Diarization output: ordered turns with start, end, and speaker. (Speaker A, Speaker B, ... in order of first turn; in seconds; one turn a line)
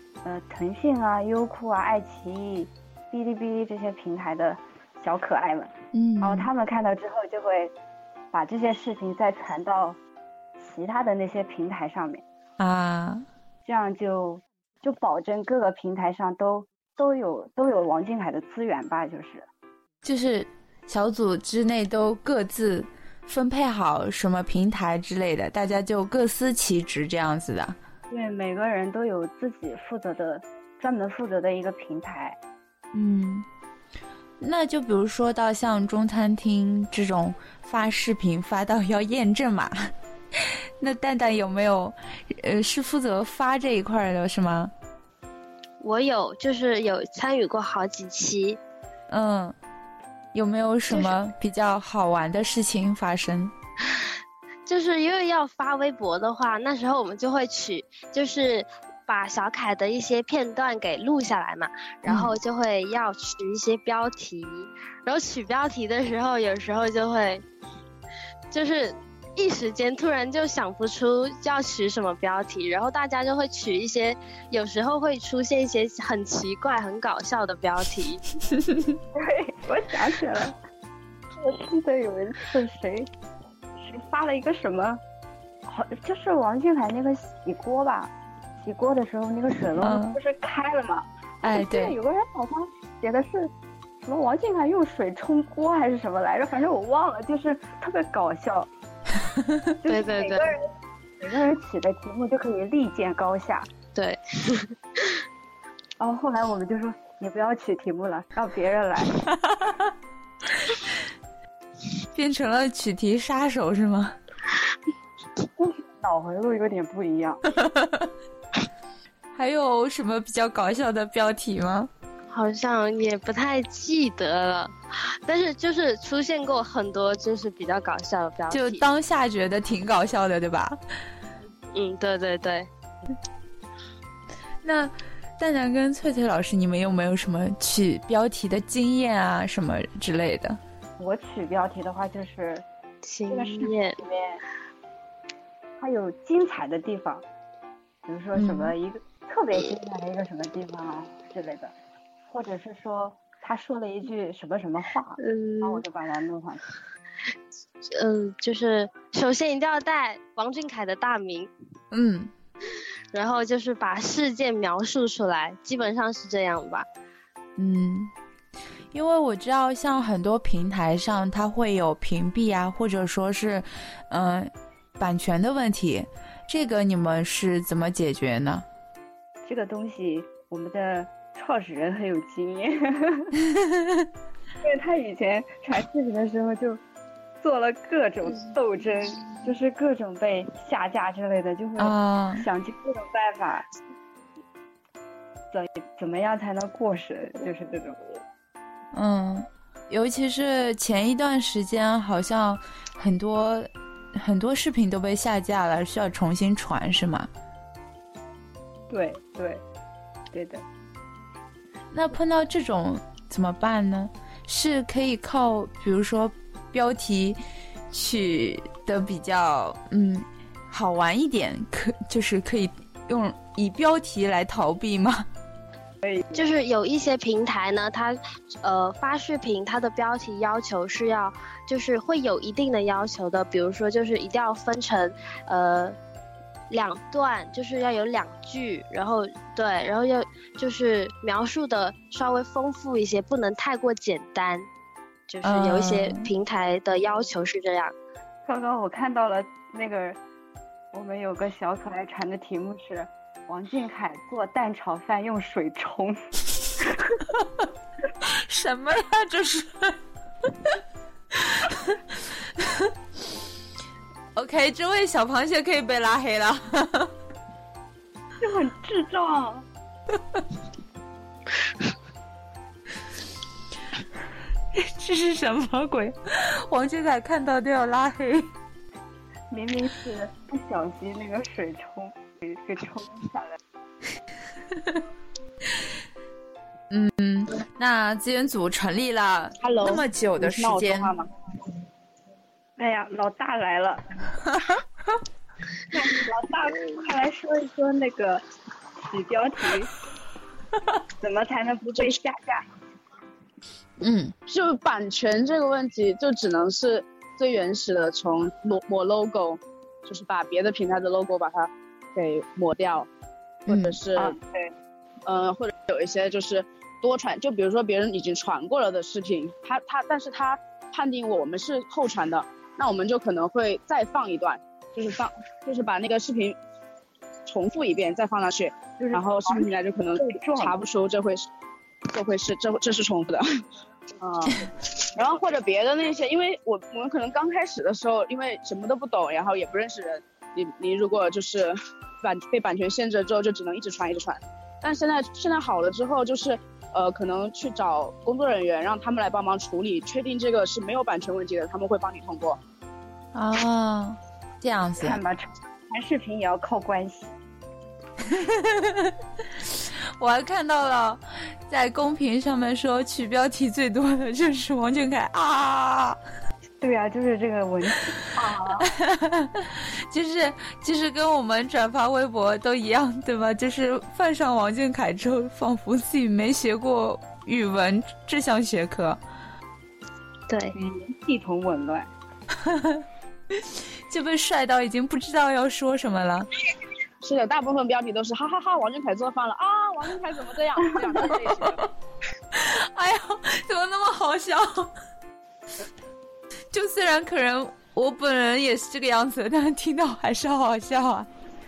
Speaker A: 0.2-7.7
Speaker B: 5.9-6.5
Speaker A: 8.3-10.0
Speaker A: 10.6-12.2
Speaker B: 12.6-13.2
Speaker A: 13.6-19.5
Speaker B: 20.0-27.8
Speaker A: 28.1-32.4
Speaker B: 32.9-33.5
Speaker B: 34.4-39.9
Speaker B: 40.8-44.7
Speaker C: 45.8-48.6
Speaker B: 49.1-49.5
Speaker B: 50.3-53.5
Speaker C: 50.9-51.1
Speaker C: 54.7-67.4
Speaker B: 62.1-62.3
Speaker C: 68.5-78.2
Speaker A: 79.1-80.6
Speaker A: 81.4-83.1
Speaker A: 83.8-85.0
Speaker A: 85.7-98.7
Speaker B: 89.8-90.2
Speaker B: 91.4-91.9
Speaker A: 99.8-100.7
Speaker C: 99.9-100.5
Speaker A: 101.2-103.7
Speaker C: 103.9-105.2
Speaker A: 106.0-109.2
Speaker B: 109.4-109.8
Speaker B: 112.1-114.2
Speaker A: 115.6-117.4
Speaker B: 117.5-118.1
Speaker B: 119.3-121.9
Speaker C: 122.3-128.8
Speaker B: 128.5-130.8
Speaker C: 131.7-132.7
Speaker B: 134.6-140.6
Speaker A: 141.0-142.6
Speaker C: 143.0-144.0
Speaker A: 143.3-144.4
Speaker A: 145.8-147.2
Speaker A: 148.1-151.7
Speaker B: 148.3-148.7
Speaker A: 152.3-156.6
Speaker C: 155.2-155.8
Speaker C: 157.8-161.5
Speaker B: 161.9-162.3
Speaker C: 163.1-166.9
Speaker B: 167.6-168.1
Speaker B: 168.9-178.6
Speaker A: 179.4-183.3
Speaker B: 183.4-184.1
Speaker A: 184.6-186.8
Speaker A: 187.4-193.7
Speaker B: 191.8-192.4
Speaker A: 195.5-198.1
Speaker B: 198.9-207.3
Speaker A: 208.9-209.6
Speaker A: 210.3-210.6
Speaker B: 211.9-217.4
Speaker B: 217.9-225.2
Speaker A: 226.0-226.5
Speaker C: 226.3-235.9
Speaker C: 236.7-244.7
Speaker C: 245.3-247.9
Speaker B: 245.4-246.2
Speaker A: 248.4-250.2
Speaker A: 250.9-257.2
Speaker B: 258.2-260.0
Speaker B: 261.3-262.0
Speaker B: 262.6-262.9
Speaker B: 264.4-267.1
Speaker A: 268.4-269.6
Speaker B: 274.7-278.5
Speaker A: 279.5-283.6
Speaker B: 286.9-291.1
Speaker D: 289.6-291.3
Speaker A: 292.8-294.0
Speaker A: 295.9-298.4
Speaker A: 299.0-299.9
Speaker A: 301.2-302.6
Speaker B: 304.0-304.3
Speaker D: 304.5-313.1
Speaker D: 313.6-314.3
Speaker B: 313.7-314.0
Speaker A: 314.1-314.7
Speaker D: 315.2-326.6
Speaker D: 327.5-331.5
Speaker A: 329.0-330.8
Speaker D: 332.1-333.4
Speaker A: 334.2-334.7
Speaker D: 335.1-352.6
Speaker B: 353.3-355.2
Speaker A: 355.0-357.4
Speaker B: 358.2-366.2
Speaker A: 366.8-368.9
Speaker B: 368.8-379.2
Speaker C: 380.5-380.7
Speaker A: 380.7-382.1
Speaker B: 382.6-386.5
Speaker D: 387.2-391.9
Speaker B: 392.5-394.9
Speaker B: 396.7-401.3